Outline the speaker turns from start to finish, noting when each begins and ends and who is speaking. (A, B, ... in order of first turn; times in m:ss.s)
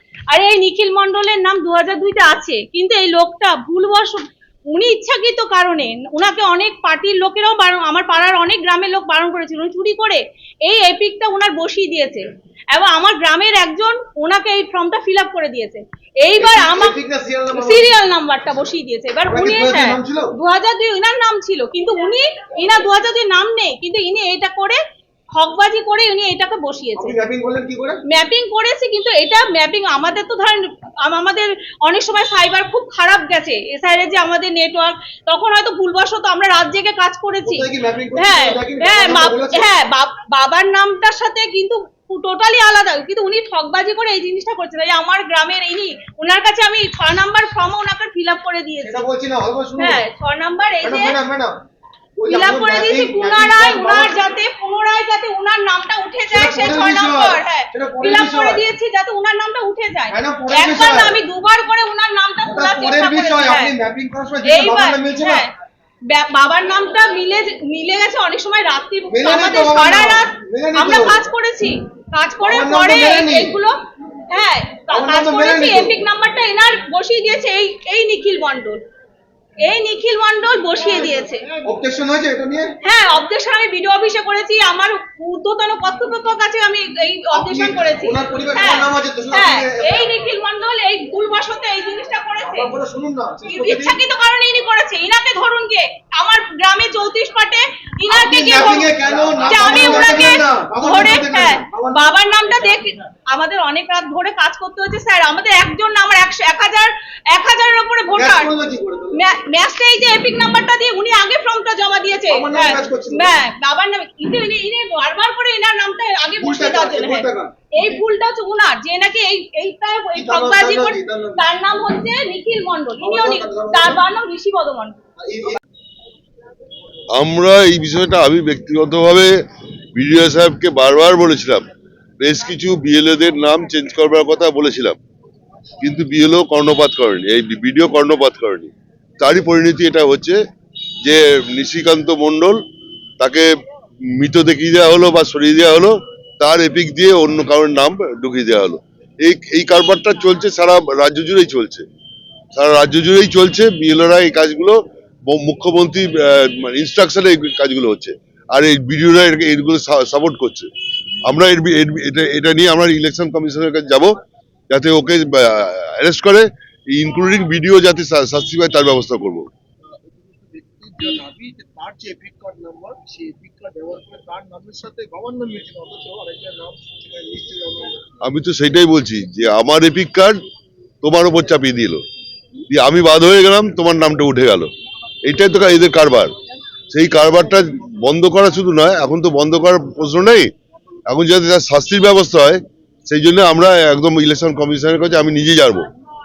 0:00.3-0:17.0 A
0:16.4-0:17.9 B
0:17.5-0:24.8 A
0:19.3-0:20.3 B
0:25.4-0:27.2 A
0:27.0-0:28.0 B
0:28.1-0:49.1 A
0:37.4-0:39.7 B
0:48.8-0:50.0 B
0:49.8-0:51.2 A
0:50.8-0:51.5 B
0:52.2-0:54.2 B
0:52.3-1:03.8 A
0:56.3-0:58.6 B
1:00.1-1:01.2 B
1:02.5-1:05.5 B
1:04.4-1:05.5 A
1:06.1-1:13.8 A
1:09.1-1:11.2 B
1:12.4-1:13.6 B
1:14.3-1:18.8 A
1:14.9-1:16.0 B
1:19.6-1:21.5 A
1:21.6-1:22.7 B
1:22.8-1:32.8 A
1:27.3-1:30.1 B
1:32.5-1:34.0 B
1:33.4-1:48.5 A
1:38.1-1:42.1 B
1:48.1-1:49.2 B
1:49.1-2:05.0 A
1:52.3-1:53.4 B
1:56.4-1:57.5 B
2:00.2-2:01.5 B
2:03.0-2:04.0 B
2:05.2-2:05.6 B
2:07.2-2:09.3 C
2:10.0-2:11.6 C
2:12.2-2:15.0 C
2:15.8-2:20.4 C
2:21.0-2:22.6 C
2:23.2-2:23.5 C
2:24.2-2:31.8 C
2:32.5-2:40.7 C
2:41.3-2:44.1 C
2:44.7-2:49.5 C
2:49.9-2:58.0 B
2:58.2-3:00.4 C
3:01.0-3:02.0 C
3:02.7-3:04.7 C
3:05.2-3:06.3 C
3:06.9-3:10.5 C
3:11.1-3:15.9 C